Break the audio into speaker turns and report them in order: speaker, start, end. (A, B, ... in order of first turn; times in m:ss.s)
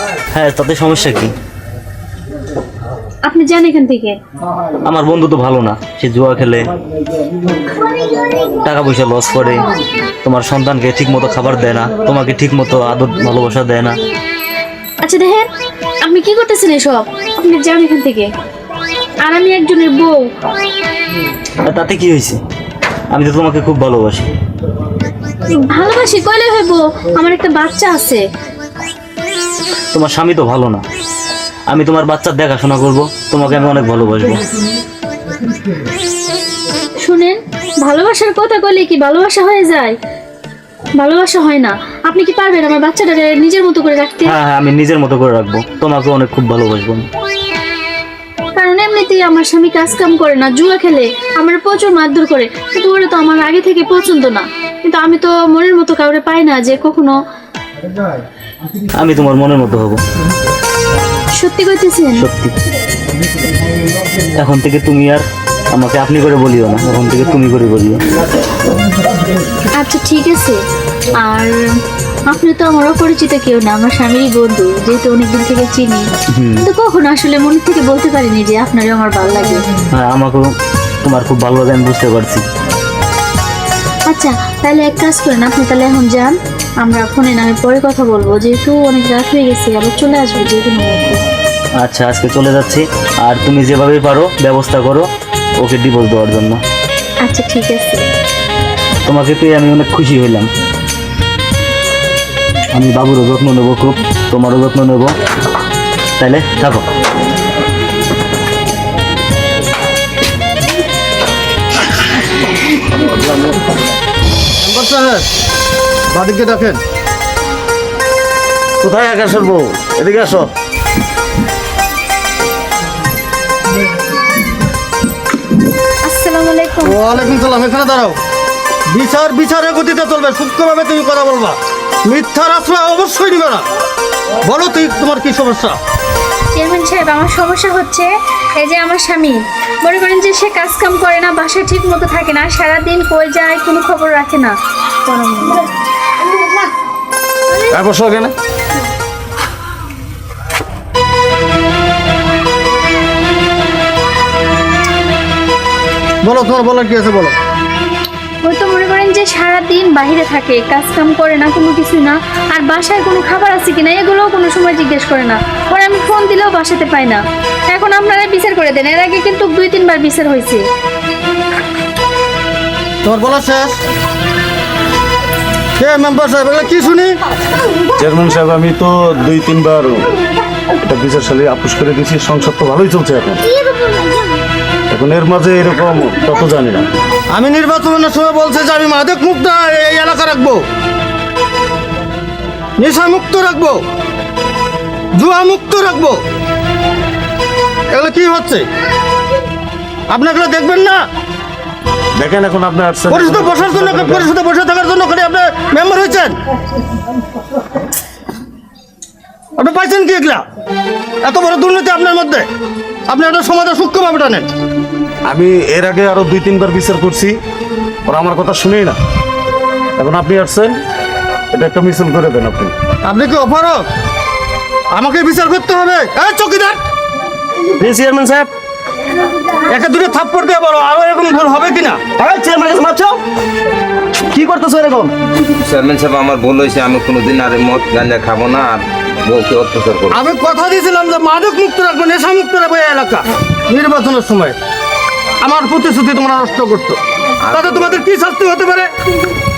0:00.3-0:01.3 A
0:03.2-0:04.2 B
0:04.8-0:06.7 A
0:08.6-0:09.7 A
0:10.2-0:14.0 A
0:15.0-0:15.5 B
0:16.0-0:18.3 B
0:19.2-0:20.3 B
0:21.6-0:22.4 A
0:23.1-0:24.3 A
0:25.5-0:28.2 B
0:29.9-0:30.8 A
0:31.7-0:34.4 A
0:37.0-0:39.9 B
0:41.0-0:44.4 B
0:44.2-0:47.1 A
0:48.6-0:57.1 B
0:58.9-1:00.0 A
1:01.3-1:02.2 B
1:02.1-1:02.5 A
1:04.4-1:08.0 A
1:09.7-1:10.6 B
1:11.2-1:11.6 B
1:12.3-1:16.1 B
1:16.3-1:16.6 A
1:16.6-1:19.6 B
1:19.9-1:20.5 A
1:21.0-1:22.4 A
1:24.1-1:31.2 B
1:31.8-1:35.1 A
1:35.6-1:36.6 A
1:37.2-1:38.0 B
1:39.0-1:40.5 A
1:42.7-1:45.1 A
1:46.2-1:46.8 A
1:54.6-1:55.3 C
1:56.1-1:56.8 C
1:58.8-2:00.5 D
2:06.0-2:07.0 B
2:06.8-2:08.2 C
2:08.9-2:13.6 C
2:14.4-2:15.8 C
2:16.5-2:25.6 B
2:27.7-2:28.3 D
2:36.2-2:37.3 C
2:38.4-2:50.6 B
2:53.0-2:53.8 C
2:55.8-2:57.1 C
2:58.0-3:00.1 D
3:00.8-3:03.4 D
3:04.9-3:06.9 D
3:07.3-3:10.6 C
3:12.8-3:13.8 C
3:15.2-3:16.2 C
3:17.9-3:18.6 C
3:20.1-3:21.0 C
3:22.2-3:24.3 D
3:23.1-3:26.4 C
3:29.6-3:30.4 C
3:31.2-3:32.5 C
3:33.1-3:34.5 C
3:35.2-3:37.4 D
3:38.0-3:39.0 D
3:40.0-3:40.8 D
3:41.5-3:42.7 D
3:43.0-3:43.9 C
3:44.9-3:46.8 C
3:47.8-3:48.5 D
3:49.7-3:52.0 C
3:52.2-3:53.2 D
3:54.3-3:55.1 D
3:55.6-4:00.2 E
4:00.1-4:04.6 C
4:05.4-4:07.0 C
4:07.4-4:08.0 E
4:07.5-4:08.9 C